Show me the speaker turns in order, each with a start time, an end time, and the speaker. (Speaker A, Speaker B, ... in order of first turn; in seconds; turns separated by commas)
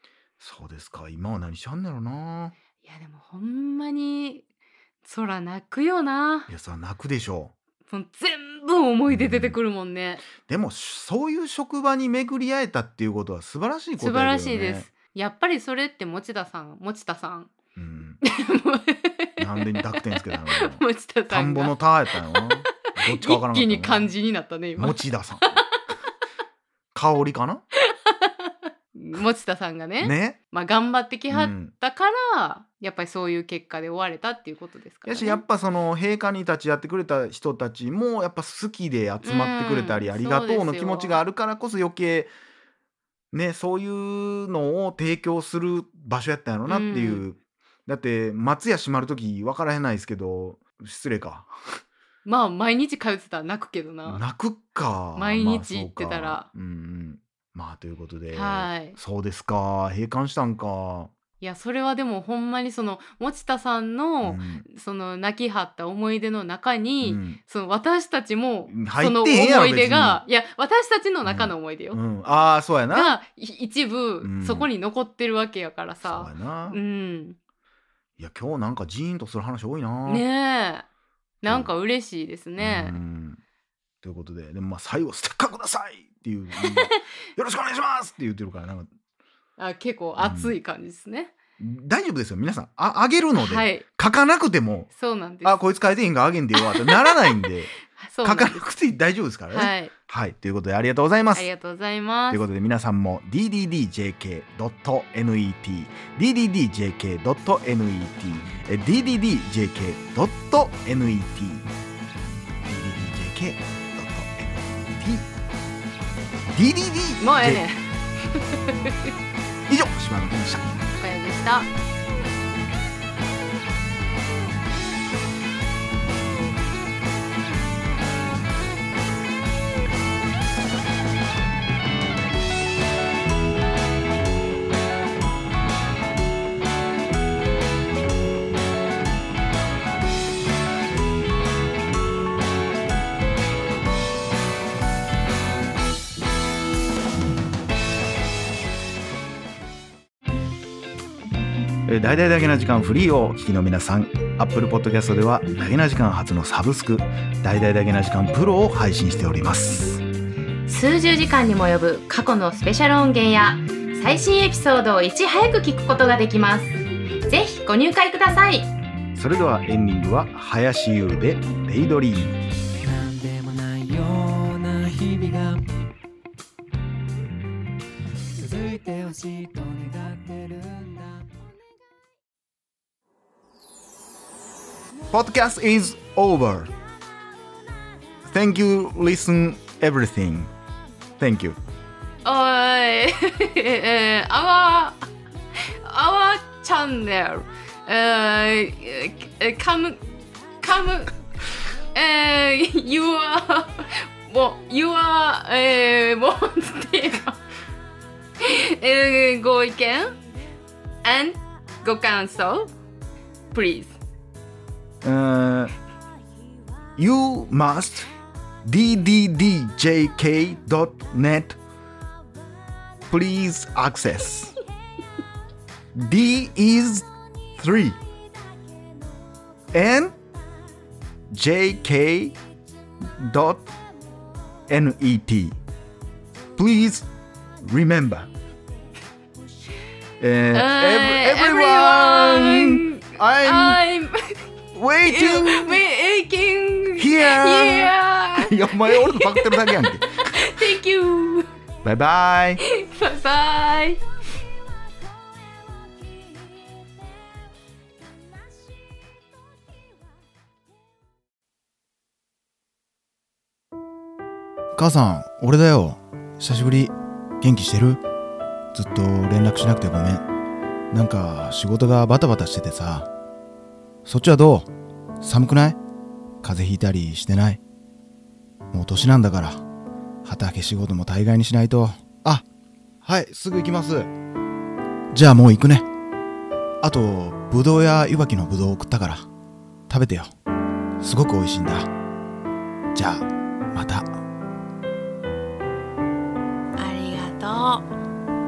Speaker A: 0.4-2.5, Speaker B: 2.8-4.4, Speaker B: 5.0-6.5, Speaker A: 6.5-7.5, Speaker B: 7.9-10.2, Speaker A: 9.1-9.6, Speaker A: 10.4-14.9, Speaker B: 14.0-17.5, Speaker A: 17.7-18.2, Speaker B: 18.2-21.8, Speaker A: 19.4-24.1, Speaker B: 22.3-25.6, Speaker A: 24.8-25.5, Speaker A: 26.9-27.6, Speaker B: 27.8-35.4, Speaker A: 30.0-30.4, Speaker A: 31.3-31.7, Speaker A: 35.0-42.3, Speaker B: 39.2-41.2, Speaker A: 43.3-51.5, Speaker B: 46.7-47.2, Speaker B: 52.2-54.2, Speaker A: 54.0-61.1, Speaker B: 55.1-56.5, Speaker B: 58.3-59.0, Speaker B: 61.4-72.0, Speaker A: 64.2-64.7, Speaker A: 67.0-67.4, Speaker A: 68.7-70.2, Speaker A: 71.2-73.2, Speaker B: 72.9-77.4, Speaker A: 74.2-74.7, Speaker A: 76.0-76.8, Speaker A: 78.2-80.2, Speaker B: 80.1-80.8, Speaker B: 81.4-83.0, Speaker A: 81.5-81.7, Speaker A: 82.6-83.4, Speaker A: 84.0-88.9, Speaker B: 86.6-87.0, Speaker B: 89.6-91.3, Speaker A: 90.2-90.6, Speaker A: 91.6-94.9, Speaker B: 93.3-93.8, Speaker B: 94.9-95.6, Speaker A: 95.4-97.7, Speaker B: 96.6-98.6, Speaker A: 98.2-101.5, Speaker B: 99.5-99.9, Speaker B: 101.3-102.4, Speaker A: 102.3-111.7, Speaker A: 112.6-115.3, Speaker A: 116.5-117.6, Speaker B: 117.2-119.1, Speaker A: 119.7-120.7, Speaker B: 120.8-121.7, Speaker A: 151.9-160.0, Speaker B: 160.7-168.7, Speaker A: 169.2-172.4, Speaker C: 172.8-175.6, Speaker C: 178.3-181.2, Speaker A: 185.1-186.7, Speaker A: 188.2-190.5, Speaker A: 191.2-191.6, Speaker B: 192.2-195.0, Speaker B: 195.8-200.0, Speaker B: 200.6-201.1, Speaker B: 201.9-207.4, Speaker B: 208.4-210.2, Speaker B: 211.0-212.7, Speaker B: 213.5-214.0, Speaker A: 215.0-215.7, Speaker A: 217.0-218.1, Speaker A: 218.6-221.6, Speaker A: 223.1-224.5, Speaker A: 225.9-228.0, Speaker A: 229.7-230.1, Speaker A: 231.3-232.3, Speaker A: 233.0-233.7, Speaker A: 234.7-235.6, Speaker A: 236.6-237.1, Speaker A: 237.6-238.3, Speaker A: 240.2-243.8, Speaker B: 240.5-244.4, Speaker A: 244.7-245.8, Speaker B: 245.0-251.5, Speaker A: 247.0-250.7, Speaker A: 251.8-252.6, Speaker B: 252.6-254.0, Speaker A: 264.8-268.0, Speaker A: 268.7-270.2, Speaker A: 270.9-273.1, Speaker A: 274.1-274.7, Speaker A: 275.2-275.8, Speaker A: 276.4-277.6, Speaker A: 278.7-279.6, Speaker A: 280.2-282.4, Speaker A: 283.0-284.1, Speaker A: 285.1-285.8, Speaker A: 286.8-289.3, Speaker A: 289.9-290.3, Speaker A: 291.0-291.9, Speaker A: 292.9-294.2, Speaker B: 296.8-297.9